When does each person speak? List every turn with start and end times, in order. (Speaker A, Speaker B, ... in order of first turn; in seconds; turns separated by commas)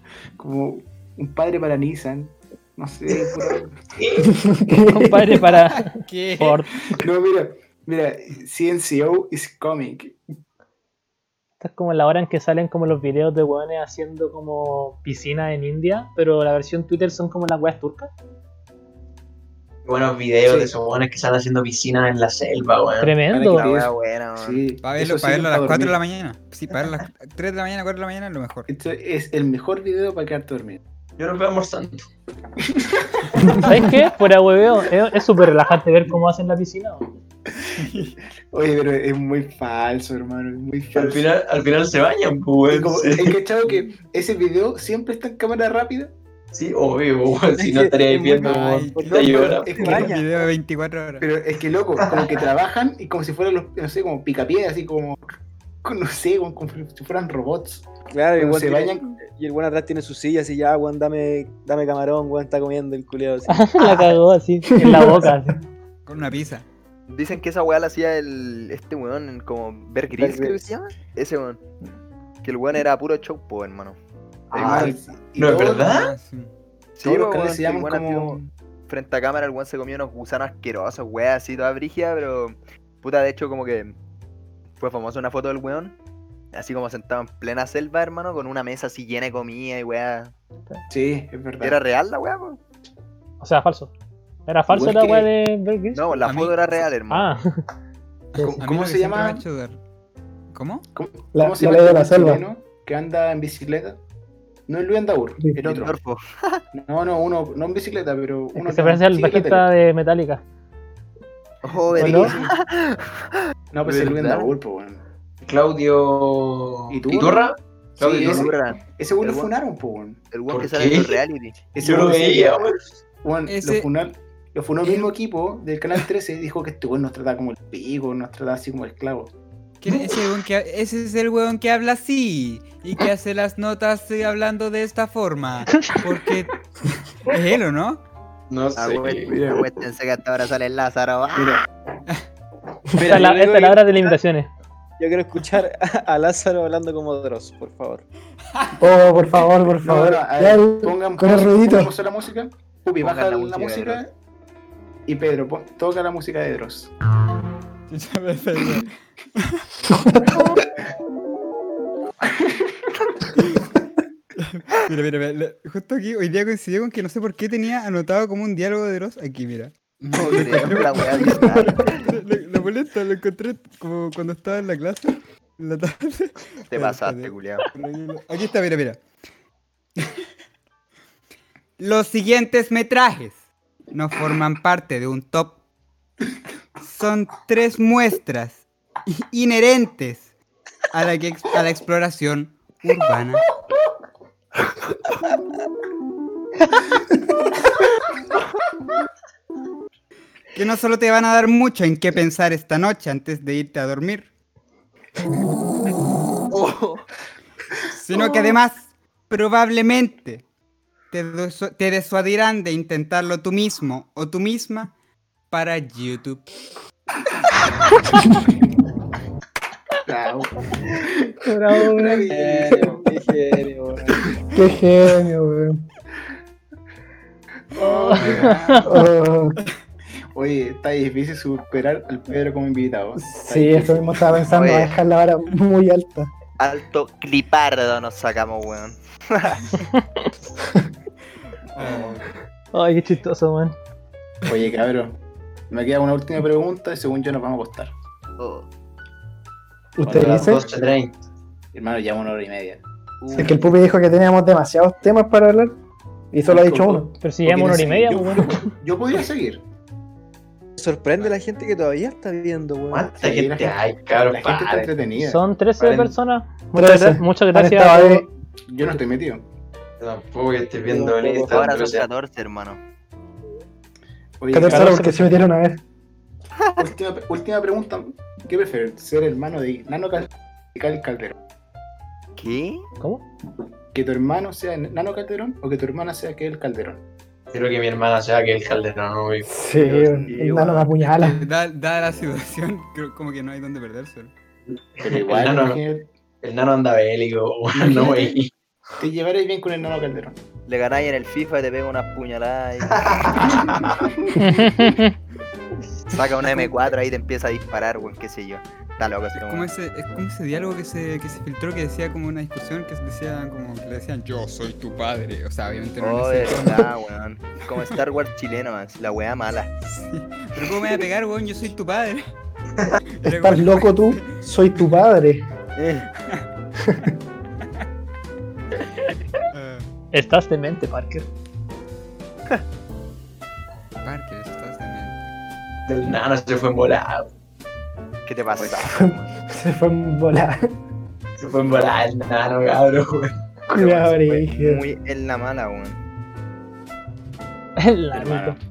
Speaker A: 0.4-3.8, Speaker B: 3.9-4.3, Speaker C: 4.4-5.3, Speaker D: 4.9-6.7, Speaker E: 5.6-6.6, Speaker A: 6.9-10.2, Speaker D: 11.6-18.1, Speaker B: 19.9-23.1, Speaker A: 20.4-20.7, Speaker D: 23.0-23.7, Speaker A: 23.3-25.9, Speaker F: 23.5-24.6, Speaker E: 24.8-28.7, Speaker A: 28.7-30.8, Speaker B: 31.2-32.1, Speaker A: 32.8-33.0, Speaker D: 33.6-37.1, Speaker E: 37.8-38.1, Speaker A: 38.5-41.3, Speaker B: 40.9-43.4, Speaker A: 42.7-46.1, Speaker B: 46.5-50.0, Speaker G: 47.6-50.5, Speaker E: 48.4-51.3, Speaker A: 49.7-50.1, Speaker A: 51.2-55.2, Speaker B: 52.0-52.3, Speaker A: 55.8-59.1, Speaker G: 58.1-63.7, Speaker D: 63.5-65.6, Speaker C: 64.8-65.3, Speaker E: 66.1-66.7, Speaker F: 67.1-71.6, Speaker G: 70.1-70.7, Speaker F: 72.4-74.0, Speaker A: 74.5-76.0, Speaker B: 74.5-76.1, Speaker F: 74.5-74.9, Speaker E: 75.8-76.5, Speaker F: 77.0-84.0, Speaker A: 77.0-78.5, Speaker F: 84.8-85.9, Speaker F: 86.5-90.3, Speaker A: 90.9-91.8, Speaker F: 91.6-92.6, Speaker D: 93.4-93.9, Speaker D: 94.5-96.1, Speaker A: 94.7-95.3, Speaker F: 95.9-97.3, Speaker E: 96.2-96.7, Speaker D: 97.1-97.6, Speaker A: 98.4-99.4, Speaker E: 98.5-99.8, Speaker E: 100.5-100.8, Speaker A: 100.9-104.0, Speaker C: 101.3-102.4, Speaker A: 104.7-105.9, Speaker F: 105.6-106.6, Speaker A: 106.7-109.7, Speaker D: 108.5-110.4, Speaker F: 111.6-113.1, Speaker A: 111.9-112.5, Speaker D: 112.0-112.3, Speaker A: 113.7-115.0, Speaker F: 113.9-114.5, Speaker B: 115.4-118.5, Speaker A: 116.9-117.5, Speaker A: 118.0-120.2, Speaker F: 118.0-119.5, Speaker F: 120.3-121.7, Speaker B: 120.5-121.2, Speaker A: 121.7-122.7, Speaker B: 121.8-122.8, Speaker A: 123.2-129.3, Speaker E: 123.5-123.9, Speaker E: 129.8-136.6, Speaker E: 137.2-138.0, Speaker B: 138.5-139.3, Speaker F: 138.8-141.6, Speaker A: 139.3-139.6, Speaker A: 141.3-141.6, Speaker G: 143.0-144.2, Speaker D: 143.0-144.5, Speaker G: 145.0-148.1, Speaker C: 148.8-151.9, Speaker A: 149.7-154.1, Speaker F: 153.0-154.0, Speaker A: 155.1-156.9, Speaker E: 157.9-159.7, Speaker C: 159.9-160.3, Speaker A: 162.2-162.9, Speaker E: 163.4-163.7, Speaker E: 164.4-169.7, Speaker A: 170.0-170.8, Speaker F: 170.1-172.1, Speaker E: 170.3-179.0, Speaker C: 171.4-171.7, Speaker F: 176.7-177.7, Speaker E: 181.8-185.6, Speaker E: 186.8-190.3, Speaker E: 190.9-193.4, Speaker E: 200.5-204.3, Speaker F: 206.5-207.0, Speaker E: 207.9-210.4, Speaker E: 211.1-214.9, Speaker E: 215.5-216.5, Speaker A: 220.1-223.1, Speaker D: 220.9-222.3, Speaker G: 222.3-224.3, Speaker C: 224.5-225.8, Speaker A: 227.7-229.1, Speaker D: 227.8-228.9, Speaker C: 228.8-229.6, Speaker A: 230.3-234.4, Speaker C: 233.2-236.3, Speaker F: 234.5-235.0, Speaker F: 236.6-239.7, Speaker E: 241.7-242.2, Speaker D: 242.7-243.7, Speaker A: 244.4-245.2, Speaker A: 245.7-247.9, Speaker F: 248.4-248.7, Speaker C: 250.0-250.6, Speaker A: 250.0-250.6, Speaker B: 250.1-251.2, Speaker A: 251.7-252.8, Speaker F: 253.2-253.8, Speaker C: 253.3-255.8, Speaker C: 256.3-257.1, Speaker A: 256.5-259.6, Speaker D: 257.2-258.7, Speaker G: 260.8-263.1, Speaker B: 262.9-264.9, Speaker A: 263.2-266.1, Speaker D: 265.2-268.3, Speaker C: 266.7-268.3, Speaker A: 268.7-269.4, Speaker B: 270.0-272.1, Speaker G: 270.9-271.6, Speaker F: 271.5-272.8, Speaker A: 274.4-275.1, Speaker C: 274.5-275.8, Speaker D: 274.7-275.3, Speaker F: 276.6-276.9, Speaker A: 276.8-281.3, Speaker F: 282.4-282.9, Speaker A: 283.9-287.0, Speaker B: 287.5-289.5, Speaker C: 289.5-291.4, Speaker A: 289.7-290.4, Speaker F: 290.3-290.9, Speaker E: 291.1-294.3, Speaker B: 294.7-295.8, Speaker A: 295.0-296.1, Speaker B: 296.4-298.5, Speaker A: 297.7-298.4, Speaker A: 299.0-300.4, Speaker F: 300.7-303.1, Speaker B: 302.9-304.0, Speaker D: 304.4-305.1, Speaker F: 306.1-309.7, Speaker E: 309.4-316.8, Speaker F: 316.0-319.7, Speaker E: 319.8-322.2, Speaker E: 323.1-324.4, Speaker C: 323.2-325.4, Speaker F: 325.8-326.0, Speaker E: 326.2-326.4, Speaker E: 329.5-329.9, Speaker D: 330.1-331.3, Speaker E: 334.0-335.3, Speaker B: 335.9-337.3, Speaker F: 338.3-339.3, Speaker C: 338.8-340.7, Speaker B: 341.4-343.4, Speaker C: 343.7-344.8, Speaker F: 343.8-346.0, Speaker A: 343.8-344.5, Speaker D: 347.8-348.6, Speaker A: 348.1-348.6